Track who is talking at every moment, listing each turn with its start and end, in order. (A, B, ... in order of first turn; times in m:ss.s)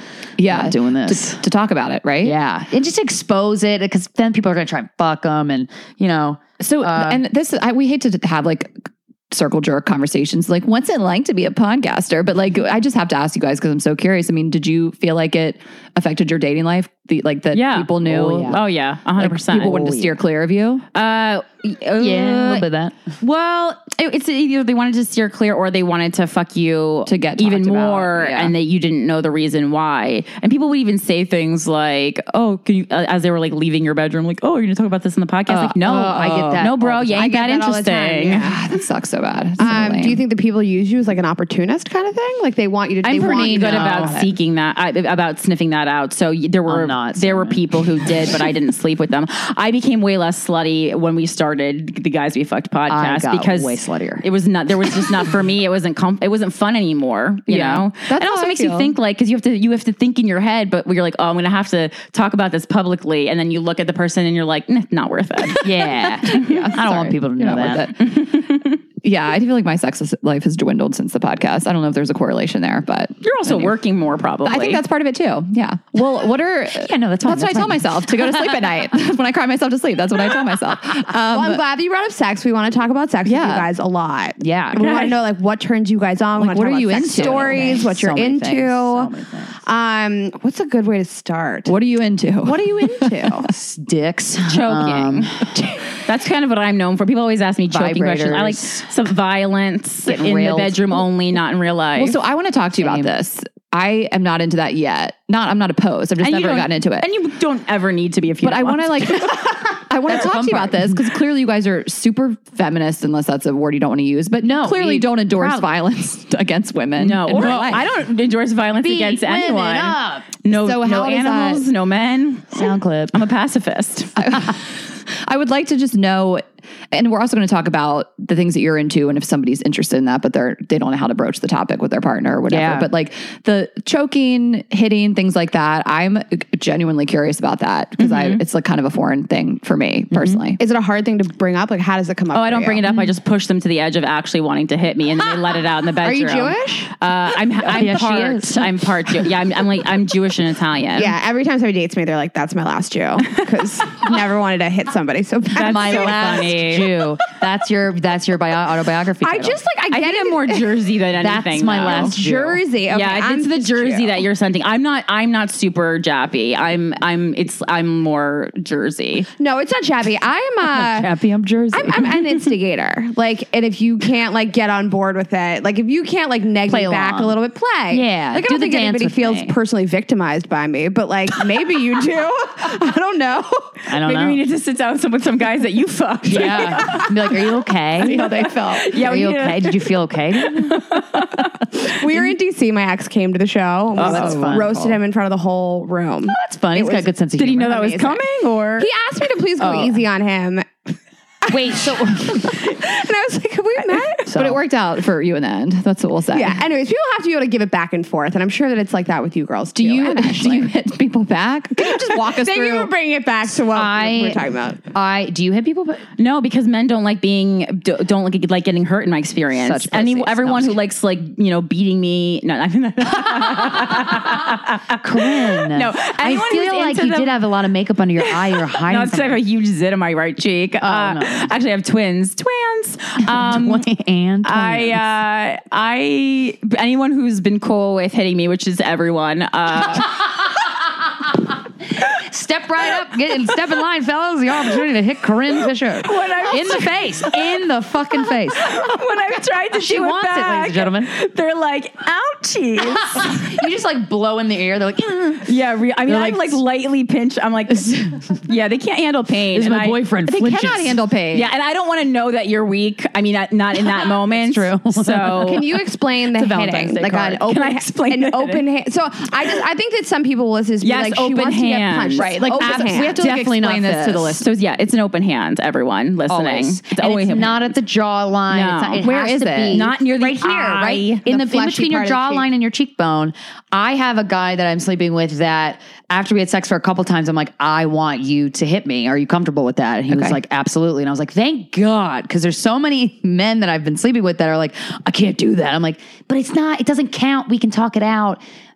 0:00.4-0:02.4 A
0:00.4-0:01.4 B
0:02.2-0:07.2 B
0:06.6-0:08.8 A
0:09.3-0:18.6 A
0:17.5-0:19.8 C
0:18.0-0:18.6 B
0:19.2-0:20.8 A
0:19.6-0:20.2 B
0:20.9-0:22.7 C
0:22.0-0:23.0 B
0:23.2-0:38.5 C
0:27.1-0:28.5 A
0:35.5-0:36.7 A
0:35.8-0:37.3 B
0:37.2-0:38.6 D
0:38.3-0:40.2 A
0:39.6-0:44.3 D
0:43.0-1:05.7 C
0:43.2-0:44.2 B
0:46.7-0:47.6 B
0:52.9-0:54.3 B
0:57.5-0:58.9 A
0:57.5-0:57.8 B
1:05.5-1:08.2 A
1:05.6-1:07.9 B
1:06.3-1:06.8 C
1:08.0-1:08.8 C
1:09.0-1:13.8 A
1:13.2-1:14.8 C
1:14.4-1:21.6 A
1:16.7-1:18.6 B
1:21.3-1:29.1 D
1:23.2-1:23.7 A
1:24.4-1:25.1 B
1:26.4-1:28.3 A
1:27.0-1:29.6 B
1:29.6-1:31.7 D
1:31.7-1:33.4 A
1:32.4-1:33.5 D
1:33.5-1:35.6 B
1:34.5-1:42.2 C
1:37.7-1:38.9 B
1:40.1-1:41.0 B
1:42.0-1:47.1 A
1:42.8-1:43.1 B
1:46.2-1:49.4 C
1:48.4-1:57.9 A
1:50.1-1:51.0 B
1:54.4-1:55.6 B
1:57.0-2:04.2 C
1:57.3-1:57.7 B
1:58.8-2:00.4 B
2:00.6-2:01.6 A
2:02.5-2:03.2 B
2:04.2-2:20.6 A
2:12.5-2:12.9 B
2:18.0-2:18.4 C
2:20.6-2:22.8 D
2:22.3-2:31.2 C
2:26.0-2:26.9 D
2:27.6-2:28.8 B
2:31.0-2:36.8 D
2:35.6-2:37.0 C
2:35.6-2:39.6 B
2:39.2-2:40.9 D
2:39.9-2:42.2 C
2:41.2-2:42.6 B
2:41.7-2:44.3 D
2:42.9-2:49.3 C
2:49.4-2:51.1 D
2:50.7-2:52.1 B
2:51.7-3:03.8 D
2:56.7-2:57.4 B
2:57.9-2:59.6 B
3:03.9-3:04.4 B
3:04.0-3:11.9 C
3:06.3-3:08.3 B
3:08.2-3:08.9 A
3:08.9-3:10.8 B
3:11.7-3:17.0 D
3:14.0-3:15.0 B
3:14.0-3:14.6 A
3:16.3-3:17.9 B
3:17.4-3:18.9 C
3:17.7-3:18.2 D
3:18.8-3:24.3 D
3:19.6-3:20.0 B
3:21.5-3:22.6 B
3:24.3-3:24.6 B
3:24.3-3:26.6 A
3:26.3-3:30.7 D
3:29.8-3:32.9 A
3:31.8-3:34.8 D
3:33.6-3:36.0 B
3:36.2-3:47.4 C
3:39.6-3:40.8 B
3:45.0-3:49.4 B
3:48.2-3:53.8 C
3:50.8-3:51.5 B
3:53.3-3:55.0 B
3:54.4-4:00.5 C
4:01.9-4:08.9 B
4:06.0-4:13.6 C
4:09.7-4:11.1 B
4:12.8-4:15.5 B
4:15.4-4:20.1 C
4:16.1-4:16.6 B
4:19.5-4:21.0 B
4:20.2-4:21.5 A
4:21.3-4:25.8 C
4:24.1-4:25.5 B
4:25.4-4:33.2 D
4:26.3-4:28.6 C
4:30.8-4:32.7 C
4:32.2-4:34.4 B
4:32.2-4:34.4 A
4:34.1-4:37.7 C
4:36.3-4:58.4 B
4:38.5-4:41.2 C
4:39.0-4:39.9 A
4:41.3-4:42.5 D
4:50.1-4:50.4 A